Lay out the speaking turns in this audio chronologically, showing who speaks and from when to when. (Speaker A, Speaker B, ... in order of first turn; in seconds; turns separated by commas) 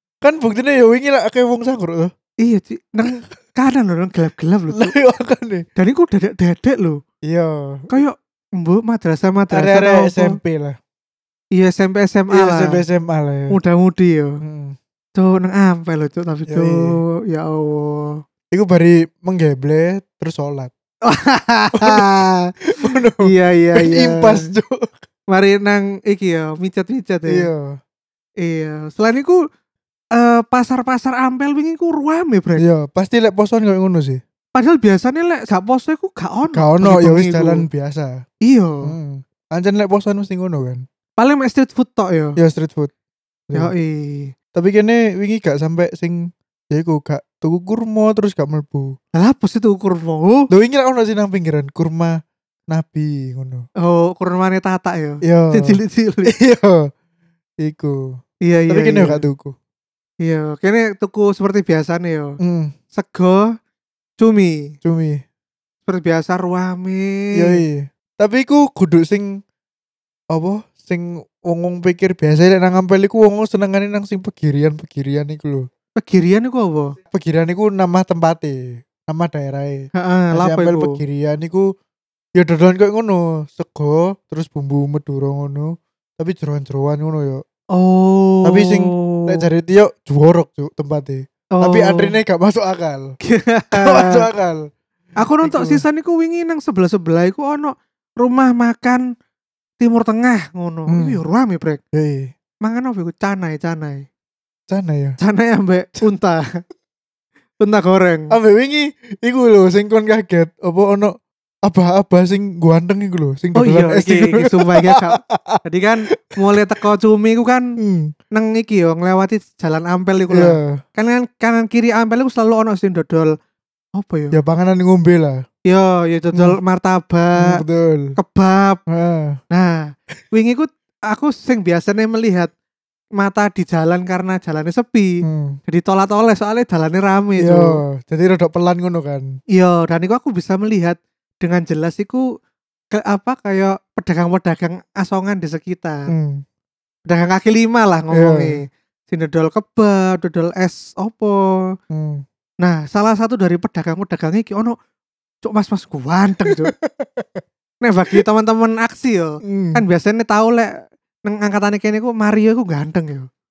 Speaker A: 0.2-2.1, Speaker B: 2.4-4.9, Speaker A: 4.7-5.6, Speaker B: 5.8-7.0, Speaker A: 7.2-7.9, Speaker B: 7.9-10.4, Speaker A: 9.5-10.8, Speaker B: 11.6-12.8, Speaker A: 12.3-13.6, Speaker B: 13.5-14.4, Speaker A: 14.4-14.8, Speaker B: 15.2-18.2, Speaker A: 16.5-17.0, Speaker A: 18.5-20.7, Speaker B: 21.1-22.5, Speaker A: 21.8-22.1, Speaker A: 22.7-24.9, Speaker B: 23.2-24.5, Speaker B: 25.3-27.5, Speaker A: 27.3-27.8, Speaker B: 28.4-29.4, Speaker B: 30.1-32.6, Speaker A: 32.6-34.2, Speaker B: 34.5-37.6, Speaker A: 36.5-38.2, Speaker B: 38.5-38.9, Speaker A: 38.8-40.8, Speaker B: 41.2-42.4, Speaker A: 42.4-42.9, Speaker B: 43.5-44.3, Speaker A: 44.5-48.9, Speaker B: 49.2-50.5, Speaker A: 50.5-52.2, Speaker A: 52.7-53.6, Speaker B: 53.8-56.3, Speaker A: 55.2-56.9, Speaker A: 57.6-58.2, Speaker B: 58.5-59.2, Speaker A: 58.7-59.5, Speaker B: 60.2-62.4, Speaker A: 62.4-62.7, Speaker B: 62.9-63.4, Speaker B: 64.2-64.7, Speaker A: 64.8-65.2, Speaker B: 65.9-67.6, Speaker A: 67.3-69.3, Speaker A: 70.3-75.7, Speaker B: 76.0-77.0, Speaker A: 77.1-81.7, Speaker B: 80.0-81.0, Speaker A: 82.4-87.4, Speaker B: 87.8-89.4, Speaker A: 88.4-93.1, Speaker B: 91.6-92.1, Speaker B: 93.2-94.3, Speaker A: 93.7-94.6, Speaker B: 95.2-99.0, Speaker A: 95.4-95.8, Speaker B: 99.8-101.8, Speaker A: 100.9-101.2, Speaker A: 101.9-102.3, Speaker B: 102.6-104.1, Speaker A: 104.7-105.2, Speaker B: 105.2-106.5, Speaker B: 107.6-108.3, Speaker A: 108.3-111.1, Speaker A: 111.7-115.6, Speaker B: 113.6-117.7, Speaker A: 117.8-118.1, Speaker B: 118.3-123.3, Speaker A: 120.3-120.8, Speaker B: 124.0-124.4, Speaker A: 124.3-125.4, Speaker B: 125.7-127.6, Speaker A: 127.4-128.1, Speaker B: 128.2-128.8, Speaker A: 128.9-129.4, Speaker B: 129.5-132.5, Speaker B: 133.2-137.8, Speaker A: 135.2-135.6, Speaker A: 137.4-139.3, Speaker B: 139.5-142.2, Speaker B: 142.9-146.1, Speaker A: 146.1-146.4, Speaker B: 147.1-151.4, Speaker A: 148.1-148.6, Speaker A: 151.9-152.2, Speaker B: 152.6-154.8, Speaker B: 155.4-156.7, Speaker A: 156.4-157.4, Speaker B: 157.8-160.7, Speaker A: 159.4-159.8, Speaker B: 161.2-163.3